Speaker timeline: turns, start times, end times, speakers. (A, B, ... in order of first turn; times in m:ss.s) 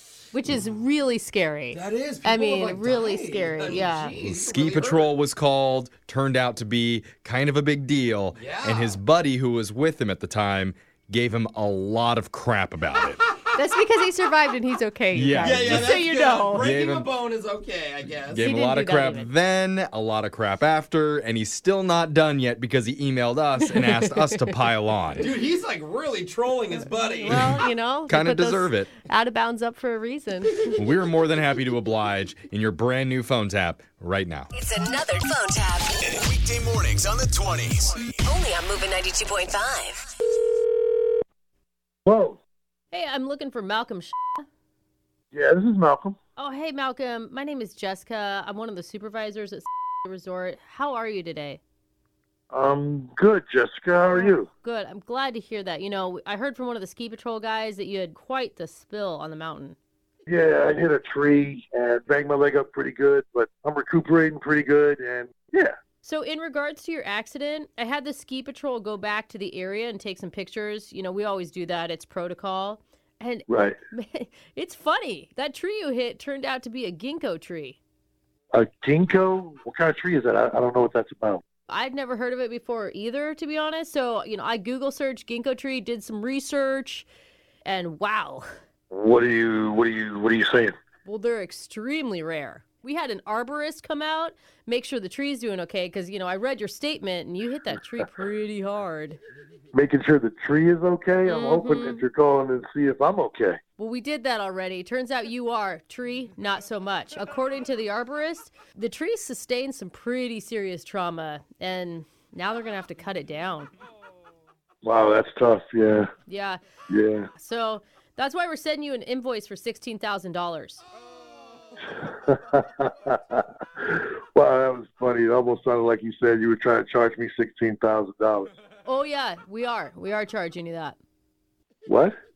0:00.3-0:04.2 A
0:01.7-0:05.1 B
0:04.2-0:13.2 C
0:08.4-0:09.0 B
0:13.5-0:16.7 A
0:15.1-0:16.0 C
0:15.4-0:18.4 B
0:16.5-0:17.1 C
0:18.3-0:25.4 C
0:18.4-0:19.3 A
0:23.6-0:24.6 A
0:25.2-0:27.6 B
0:27.0-0:30.8 A
0:27.3-0:28.9 C
0:30.8-0:34.5 C
0:34.5-0:36.0 D
0:36.0-0:38.2 E
0:38.2-0:40.1 D
0:42.0-0:42.4 F
0:42.9-0:44.4 A
0:45.3-0:46.2 F
0:46.4-0:51.6 A
0:52.5-0:54.5 F
0:54.1-0:59.8 A
1:00.3-1:05.8 F
1:06.0-1:17.8 A
1:13.5-1:13.8 F
1:18.5-1:21.4 F
1:21.7-1:27.1 A
1:27.6-1:28.5 A
1:28.9-1:30.8 F
1:31.0-1:39.2 A
1:39.7-1:43.6 F
1:41.3-1:42.0 A
1:43.8-1:53.7 A
1:54.8-1:56.1 F
1:56.3-1:56.6 A
1:56.9-1:57.3 F
1:57.4-2:00.8 A
2:02.0-2:08.5 F
2:08.8-2:11.0 A
2:11.9-2:12.2 F